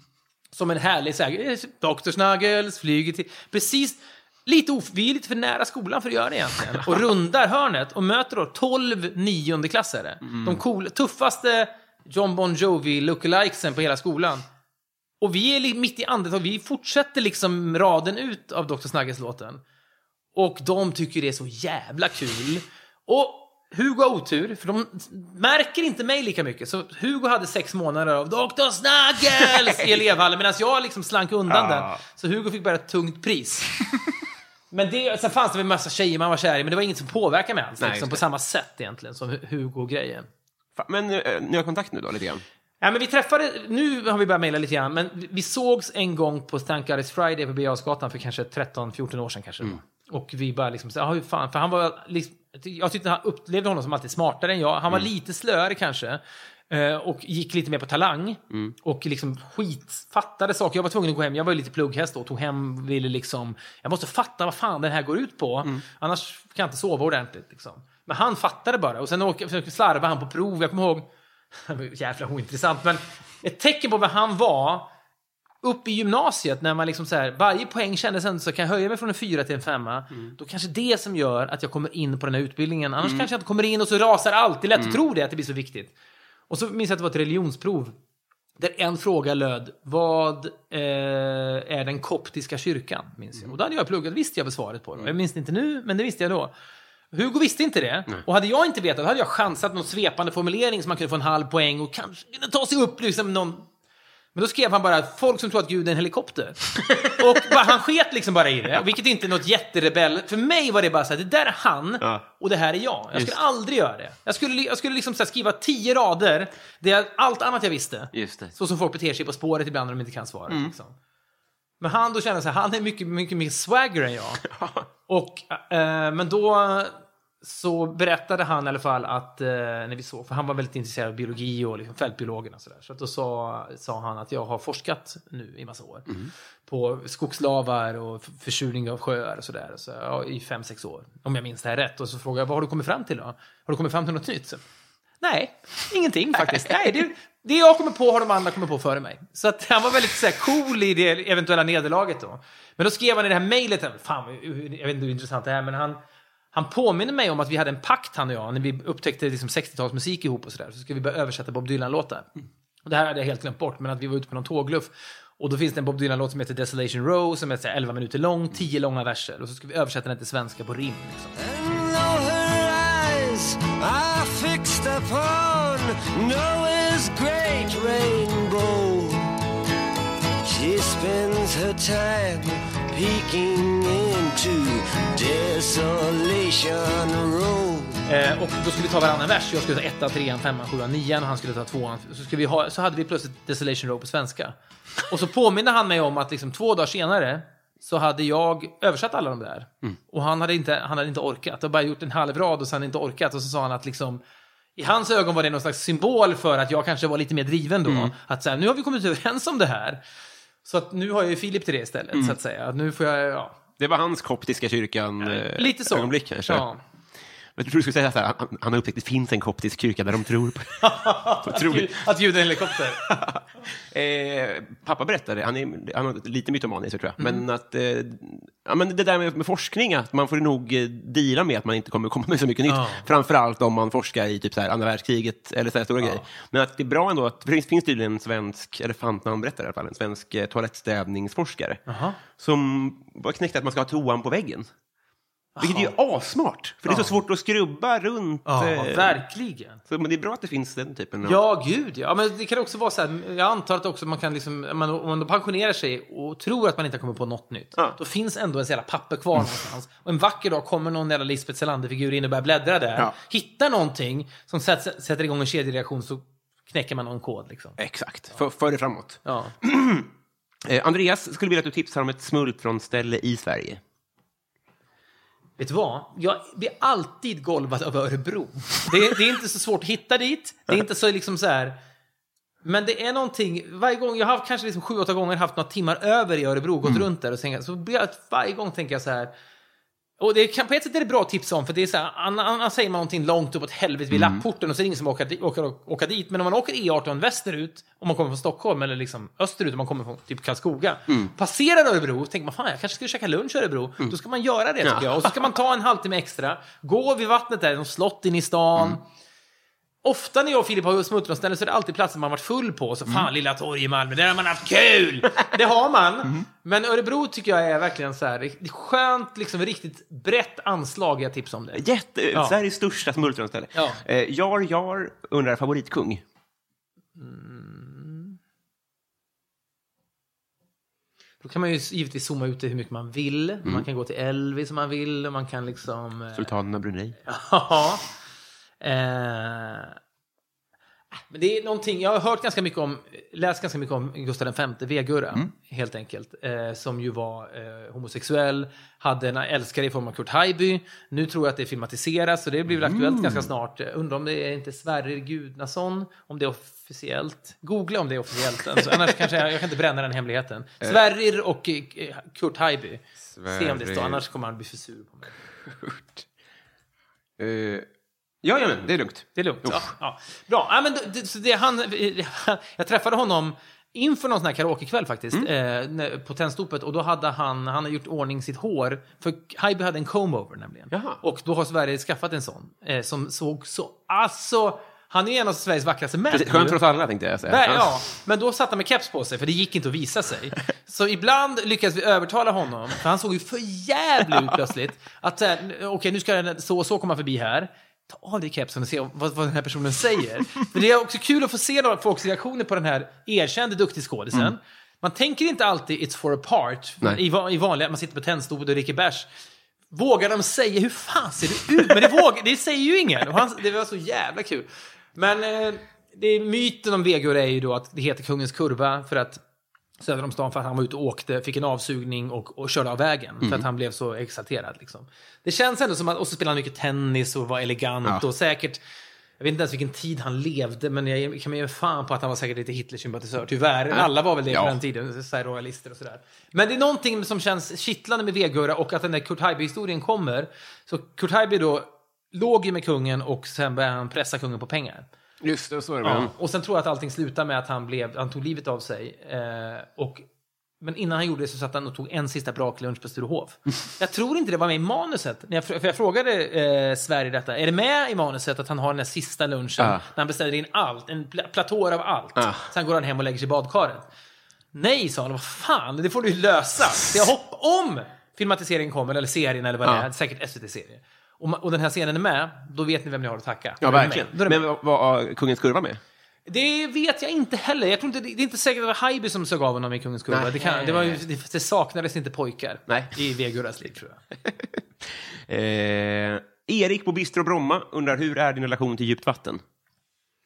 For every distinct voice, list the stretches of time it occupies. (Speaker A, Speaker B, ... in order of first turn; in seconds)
Speaker A: 0.5-14.4, 15.2-19.6, 20.3-33.7, 34.7-40.3, 42.8-74.9, 75.6-85.9, 86.5-88.0, 88.6-96.5, 97.1-103.7, 104.3-120.9, 121.8-124.4, 125.1-136.1, 136.7-144.6, 145.2-156.0, 156.5-162.3, 162.8-171.3, 188.1-204.2, 204.8-210.0, 210.6-213.6, 215.2-216.8, 220.8-223.0, 227.2-227.4, 232.7-233.1, 241.9-242.2, 245.6-245.9, 246.8-247.2, 248.4-249.8, 251.2-267.8, 269.2-269.5, 275.6-281.8, 282.6-289.3, 290.2-309.0, 310.0-322.6, 323.7-324.0, 327.2-328.4, 331.4-336.5, 337.2-338.0, 338.8-340.0, 341.3-365.3, 369.4-386.8, 387.4-409.3, 409.9-419.4, 420.0-428.8, 429.4-445.1, 446.0-450.2, 450.8-464.1, 464.7-474.6, 476.5-484.2
Speaker B: 10.3-10.6, 31.5-32.0, 37.8-38.2, 40.8-42.4, 83.0-83.3, 113.1-113.4, 118.1-118.5, 120.5-120.7, 124.4-124.9, 207.8-208.1, 213.8-216.7, 217.6-220.9, 221.4-222.0, 223.0-241.8, 242.3-244.7, 245.6-249.2, 249.9-251.4, 267.8-270.1, 270.6-273.8, 294.1-294.4, 304.8-305.3, 321.7-326.2, 336.3-337.1, 352.8-353.5, 363.2-364.2, 365.7-366.2, 367.4-367.9, 368.4-369.8, 380.9-381.2, 386.3-387.9, 433.9-434.8, 445.4-446.3, 459.8-460.0, 462.4-462.6, 473.8-476.0, 480.3-481.2, 484.4-484.8, 485.5-489.6
Speaker C: 171.4-179.3, 180.4-188.0